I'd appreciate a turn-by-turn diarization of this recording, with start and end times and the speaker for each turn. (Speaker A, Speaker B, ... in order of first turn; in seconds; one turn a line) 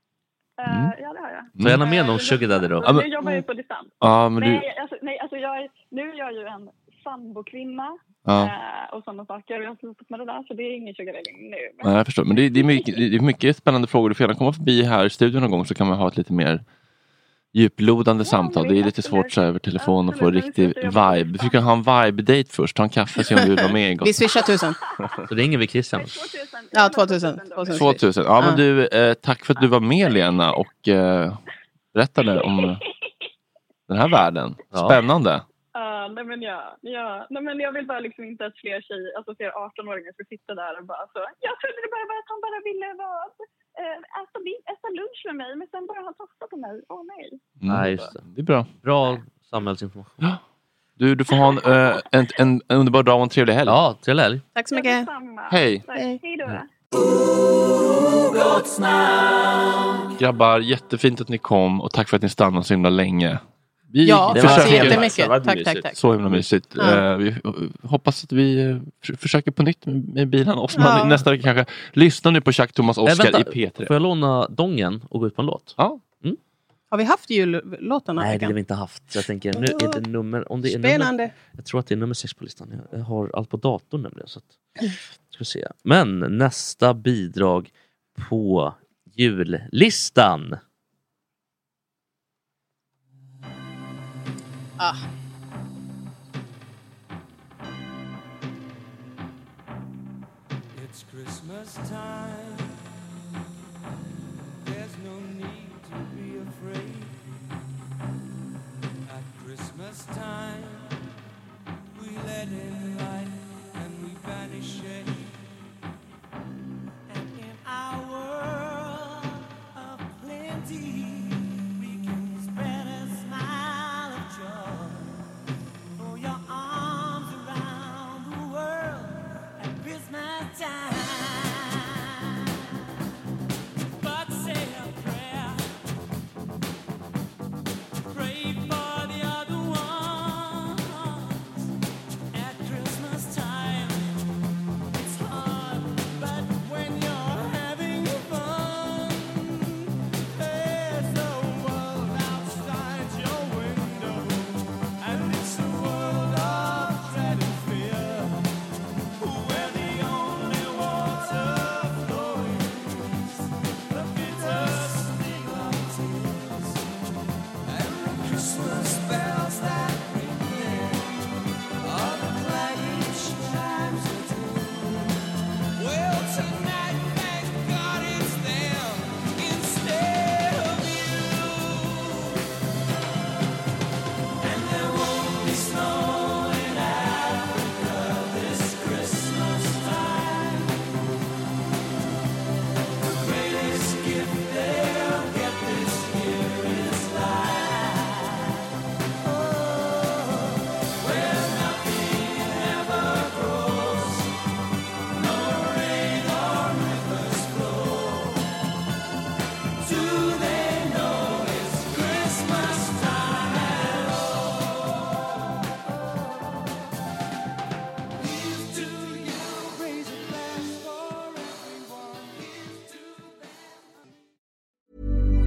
Speaker A: 0.6-13.0
Speaker B: 0.7-0.9
Speaker B: 1.6-1.9
Speaker C: 1.6-2.9
Speaker B: 2.8-3.1
Speaker B: 4.0-4.7
Speaker B: 8.2-8.5
Speaker B: 11.8-16.6
Speaker B: 17.5-24.1
Speaker A: 18.2-21.6
Speaker D: 24.0-24.8
Speaker C: 25.3-26.2
Speaker A: 25.9-28.0
Speaker D: 26.7-28.6
Speaker B: 27.7-31.4
Speaker B: 31.9-32.8
Speaker A: 32.6-32.9
Speaker B: 33.9-35.4
Speaker C: 34.7-35.0
Speaker A: 35.7-48.1
Speaker B: 47.6-48.7
Speaker C: 47.7-48.2
Speaker C: 48.8-50.2
Speaker B: 51.0-53.8
Speaker C: 53.7-54.4
Speaker D: 54.5-55.1
Speaker A: 54.7-56.7
Speaker B: 55.5-55.8
Speaker D: 55.9-56.2
Speaker B: 60.2-73.9
Speaker D: 64.0-66.0
Speaker D: 66.8-67.0
Speaker D: 70.7-71.2
Speaker C: 73.0-76.4
Speaker D: 76.9-78.5
Speaker C: 78.2-84.6
Speaker D: 79.5-80.0
Speaker D: 80.6-81.3
Speaker C: 85.3-90.6
Speaker E: 100.7-102.8
Speaker E: 104.6-107.3
Speaker E: 109.0-111.0
Speaker E: 111.9-115.6
Speaker E: 117.1-125.2
Speaker E: 126.0-132.4
Speaker E: 134.0-135.7
Speaker E: 138.1-141.7
Speaker E: 142.3-144.1
Speaker E: 144.9-158.5
Speaker E: 159.2-166.9
Speaker E: 167.6-171.2
Speaker E: 171.8-182.4
Speaker E: 184.4-190.7
Speaker E: 193.1-197.8
Speaker E: 201.0-204.2
Speaker E: 205.2-208.2
Speaker E: 209.8-214.2
Speaker E: 218.2-224.0